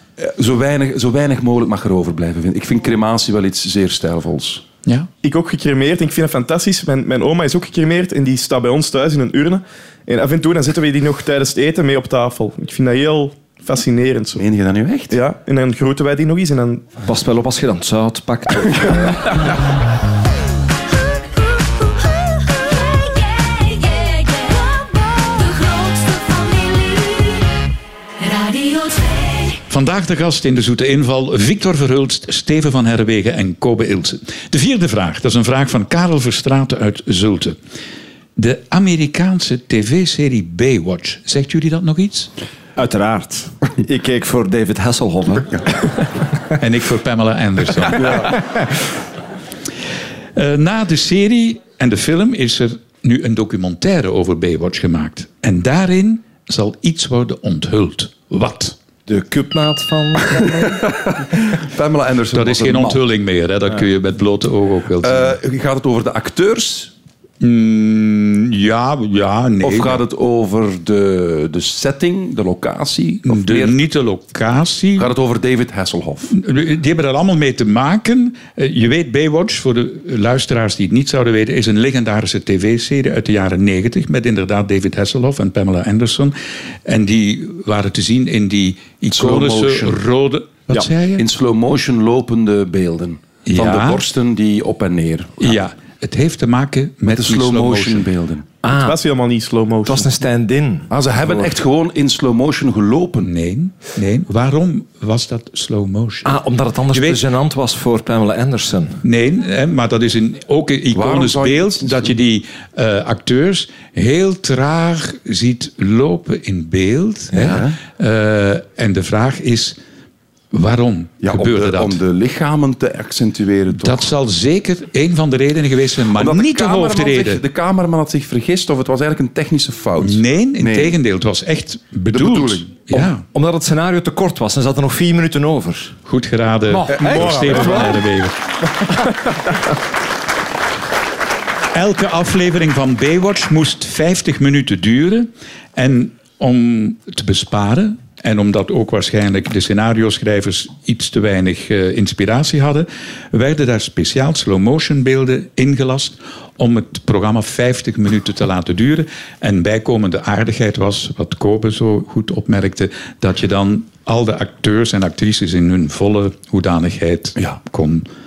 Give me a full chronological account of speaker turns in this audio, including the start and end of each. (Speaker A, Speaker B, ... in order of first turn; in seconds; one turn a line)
Speaker A: 0.2-4.7
Speaker B: 5.2-14.4
Speaker A: 14.4-15.2
Speaker B: 15.1-16.9
Speaker C: 17.1-19.4
Speaker D: 22.9-27.5
Speaker D: 28.2-29.6
Speaker E: 29.7-37.6
Speaker E: 38.4-42.3
Speaker C: 42.8-45.6
Speaker E: 46.6-48.4
Speaker A: 48.0-48.4
Speaker E: 50.4-58.8
Speaker C: 59.1-60.8
Speaker A: 60.7-63.0
Speaker E: 62.3-65.3
Speaker A: 65.0-66.9
Speaker E: 67.4-70.0
Speaker A: 69.6-73.8
Speaker E: 73.2-75.1
Speaker A: 75.0-76.4
Speaker E: 76.3-91.2
Speaker A: 89.1-90.0
Speaker A: 91.2-95.6
Speaker E: 93.5-94.0
Speaker E: 95.4-98.1
Speaker A: 97.0-98.5
Speaker C: 98.6-99.0
Speaker B: 98.7-100.1
Speaker C: 99.8-100.9
Speaker A: 100.9-103.3
Speaker E: 103.2-106.4
Speaker C: 106.2-109.0
Speaker E: 106.9-107.2
Speaker E: 109.0-119.8
Speaker A: 110.9-112.2
Speaker A: 117.3-117.8
Speaker E: 120.5-122.0
Speaker A: 121.2-124.1
Speaker E: 123.7-127.4
Speaker A: 126.1-131.0
Speaker E: 130.0-133.2
Speaker A: 132.1-132.8
Speaker C: 132.9-136.0
Speaker E: 136.1-138.3
Speaker C: 136.7-138.0
Speaker A: 136.9-137.9
Speaker E: 141.7-168.1